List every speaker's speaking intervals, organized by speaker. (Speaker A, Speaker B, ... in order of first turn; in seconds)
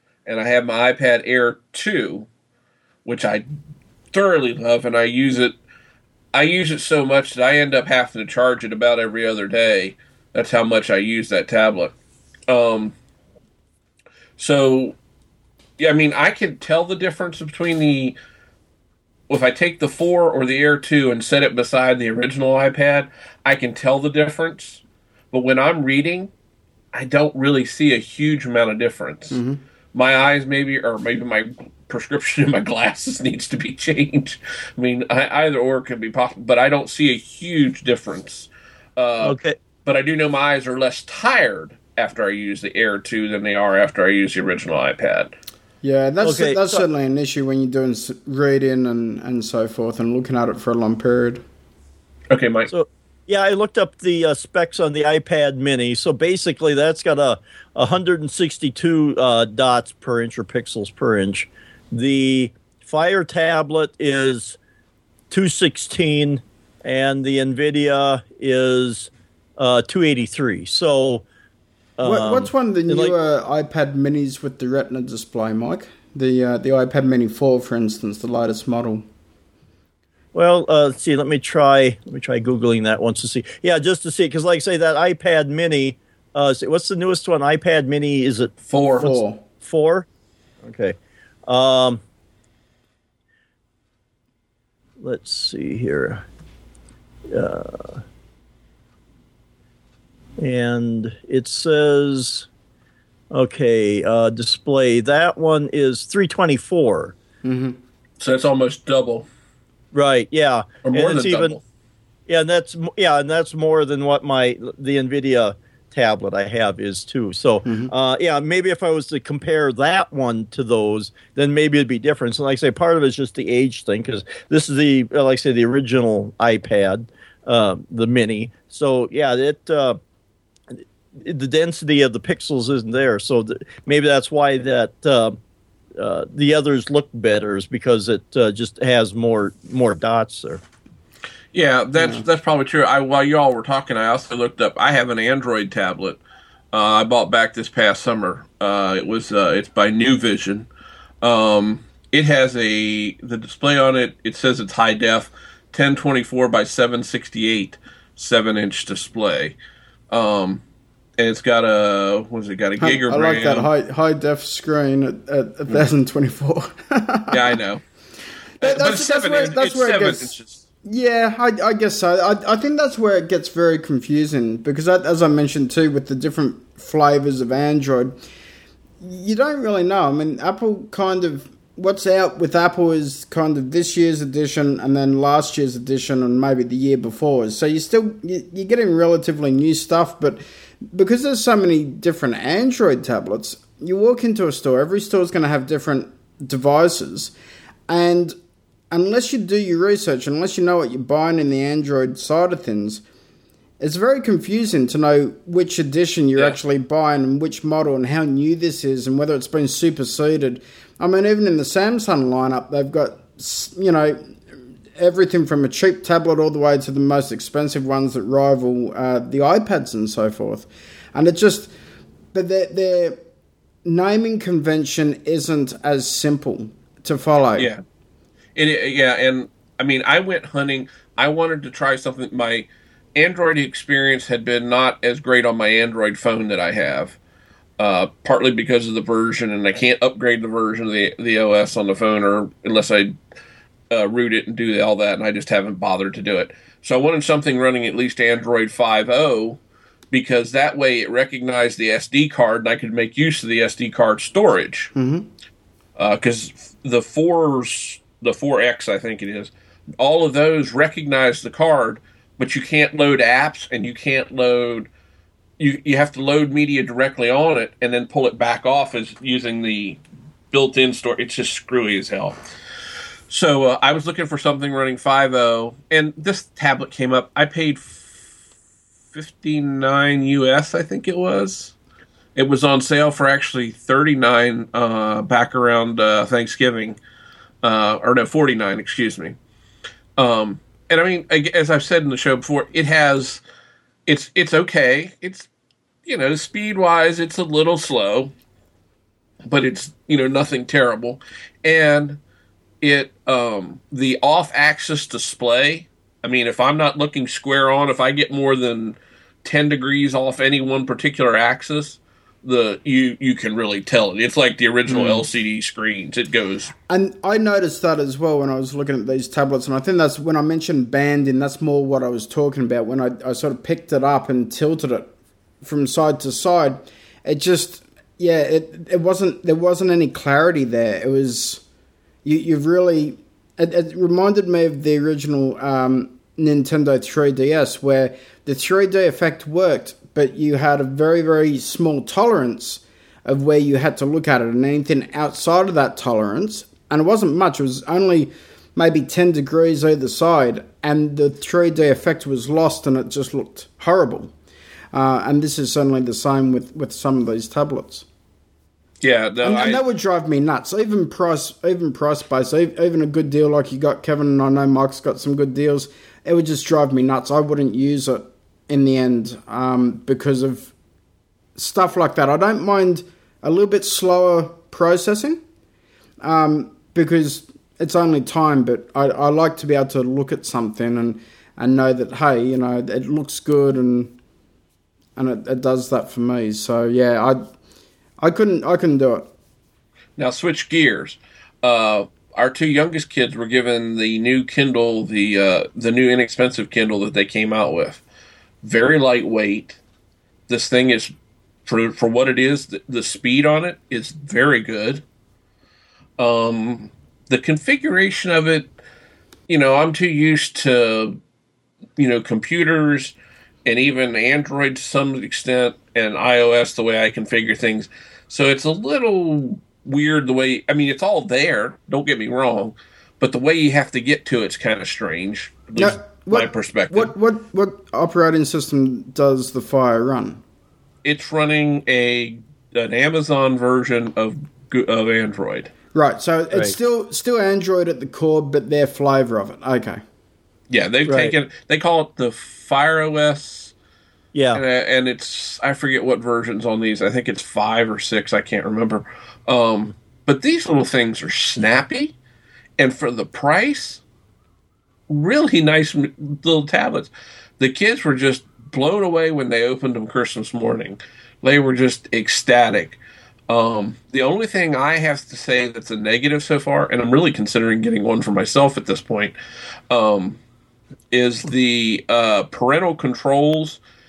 Speaker A: 0.2-2.3, 3.0-3.5, 4.1-5.5, 6.3-11.9, 12.5-12.9, 14.4-14.9, 15.8-18.1, 19.3-26.3, 26.9-29.4, 29.9-45.3, 52.3-52.7, 88.7-89.1, 108.2-109.3, 110.8-111.6, 141.5-146.2, 146.7-150.7, 151.2-159.6, 160.1-160.6, 161.2-163.7, 167.3-167.8, 168.6-170.6, 228.6-237.2, 237.8-243.1, 243.9-249.6, 250.1-254.9, 256.0-264.9, 265.6-270.0, 270.5-272.4, 273.3-278.2, 279.1-281.7, 282.4-287.0, 287.6-289.4, 290.2-293.4, 294.1-295.5, 296.1-298.3, 299.4-302.2, 302.8-316.7, 359.0-359.8, 390.2-398.0, 398.6-399.8, 400.5-401.1, 401.6-405.0, 406.2-408.7, 409.5-411.2, 412.0-413.1, 413.6-427.1, 431.0-435.7, 440.7-443.7, 444.5-452.1, 452.8-454.0, 455.1-469.3, 469.9-470.4, 471.1-473.8
Speaker B: 29.3-29.6, 45.8-51.4, 72.0-79.0, 89.0-89.4, 107.4-107.8, 117.6-117.9, 142.0-142.2, 162.8-167.4, 168.6-170.3, 170.8-178.2, 179.0-190.4, 190.9-197.3, 197.9-198.3, 198.9-203.0, 203.8-214.3, 215.0-221.7, 222.3-223.2, 223.8-227.7, 254.9-255.3, 314.9-315.2, 316.9-325.1, 325.6-331.6, 332.2-354.3, 354.9-358.1, 359.4-370.7, 371.6-375.4, 376.2-384.1, 385.1-387.4, 388.2-389.3, 425.8-430.4, 435.9-440.0
Speaker C: 39.2-39.6, 46.2-46.8, 52.7-64.6, 65.3-71.2, 72.0-73.2, 80.3-90.0, 90.6-92.0, 95.0-96.2, 97.3-98.0, 100.4-102.5, 103.3-107.1, 109.9-111.6, 112.3-130.0, 131.1-135.4, 136.0-140.6, 441.1-441.3, 444.3-444.6